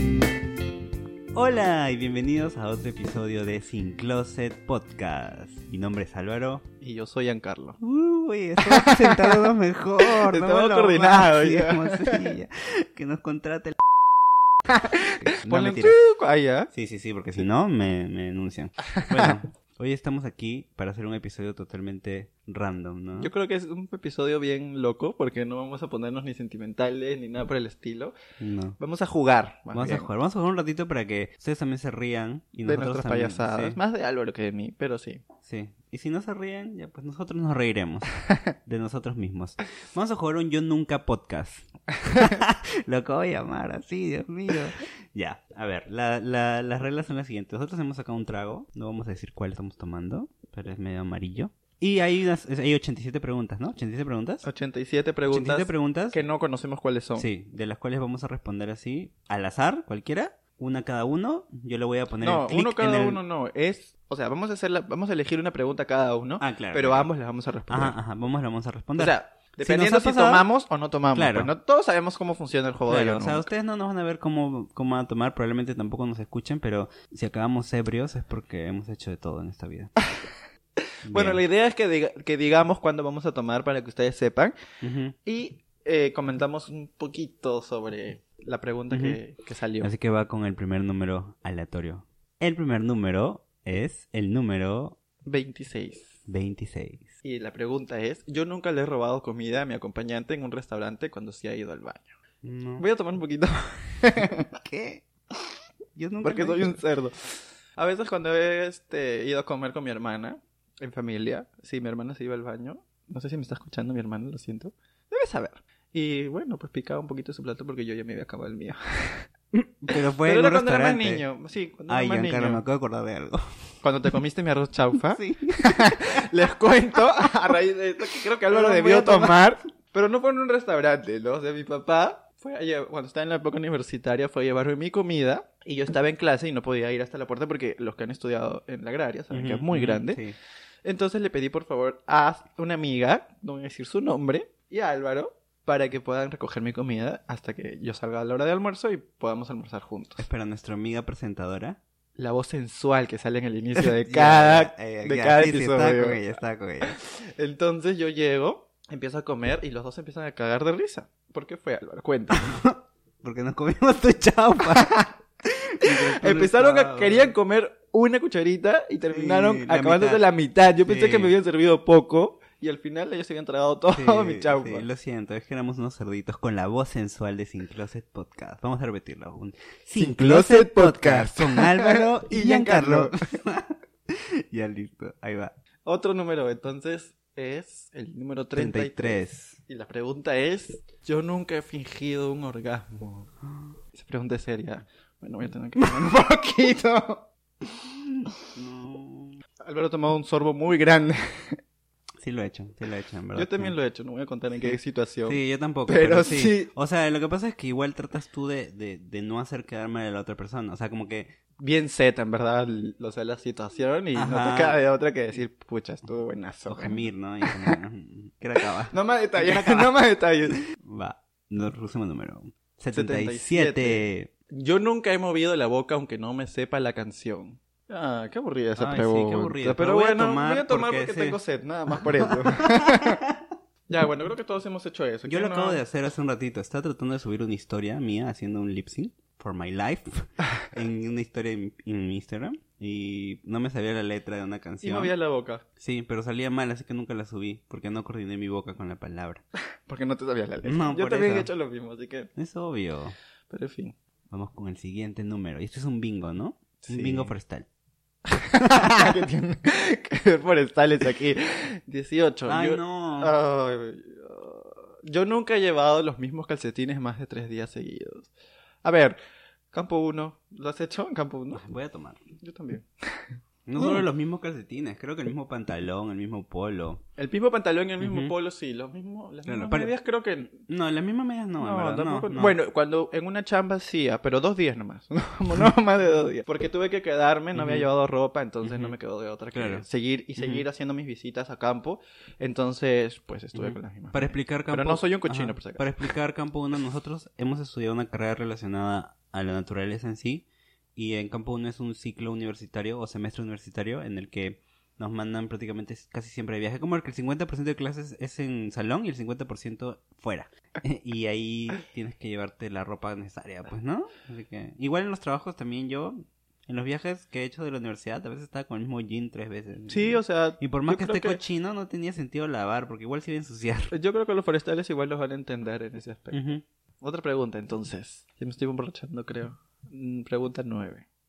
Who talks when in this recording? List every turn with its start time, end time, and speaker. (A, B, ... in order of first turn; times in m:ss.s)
0:01.3-0:06.6 A
0:06.8-0:07.8 B
0:07.8-0:13.8 A
0:08.6-0:12.4 B
0:14.7-0:16.7 B
0:15.2-0:16.0 A
0:16.7-0:23.3 A
0:23.2-0:28.1 B
0:28.4-0:28.8 A
0:28.8-0:30.1 B
0:29.7-0:33.8 A
0:32.6-0:35.2 B
0:35.4-0:38.1 A
0:38.6-0:54.4 A
0:54.4-0:57.3 B
0:55.3-0:56.2 A
0:57.2-1:03.2 A
1:02.2-1:08.0 B
1:06.4-1:07.1 A
1:07.7-1:10.5 A
1:09.0-1:13.5 B
1:11.1-1:11.5 A
1:12.9-1:19.9 A
1:21.0-1:21.4 A
1:21.1-1:24.6 B
1:24.8-1:25.1 A
1:25.2-1:29.9 B
1:28.9-1:29.2 A
1:29.8-1:35.0 A
1:35.2-1:36.1 B
1:36.3-1:37.1 A
1:37.2-1:42.2 B
1:42.4-1:42.8 A
1:42.8-1:44.5 B
1:44.2-1:45.0 A
1:46.0-1:46.8 A
1:46.2-1:59.2 B
1:59.5-2:01.2 A
2:00.2-2:02.6 B
2:01.9-2:03.6 A
2:03.8-2:20.2 B
2:05.1-2:06.2 A
2:08.5-2:09.6 A
2:19.3-2:20.4 A
2:20.8-2:30.2 B
2:30.2-2:31.8 A
2:32.2-2:36.2 B
2:33.8-2:37.0 A
2:36.8-2:42.6 B
2:42.3-2:45.0 A
2:44.8-2:45.0 B
2:45.8-2:47.4 A
2:45.8-2:54.9 B
2:49.1-2:50.3 A
2:50.8-2:51.4 A
2:53.9-3:05.5 A
3:00.0-3:03.1 B
3:05.8-3:13.3 B
3:08.6-3:09.6 A
3:13.9-3:17.3 B
3:18.5-3:19.4 A
3:19.6-3:21.6 B
3:22.2-3:23.7 A
3:23.3-3:26.7 B
3:24.6-3:31.3 A
3:31.6-3:37.8 B
3:34.1-3:34.8 A
3:36.6-3:40.0 A
3:38.9-3:40.6 B
3:40.8-3:44.3 A
3:42.9-3:53.2 B
3:48.8-3:51.4 A
3:51.9-3:53.1 A
3:53.9-3:55.8 B
3:55.3-4:05.1 A
4:04.8-4:05.6 B
4:05.8-4:09.4 A
4:09.8-4:12.3 B
4:10.6-4:11.5 A
4:12.4-4:13.1 A
4:13.5-4:14.0 B
4:14.3-4:17.6 A
4:16.8-4:17.4 B
4:18.3-4:28.3 B
4:18.7-4:19.2 A
4:22.4-4:23.4 A
4:28.8-4:29.2 B
4:29.7-4:31.6 B
4:31.5-4:32.2 A
4:32.4-4:34.0 B
4:33.7-4:37.0 A
4:37.2-4:40.6 B
4:38.0-4:38.3 A
4:39.4-4:39.9 A
4:40.7-4:42.6 A
4:41.6-4:55.9 B
4:47.5-4:47.9 A
4:48.6-4:48.9 A
4:49.5-4:49.8 A
4:50.4-4:50.6 A
4:53.5-5:23.9 A
5:19.9-5:21.4 B
5:23.9-5:31.0 B
5:26.3-5:26.6 A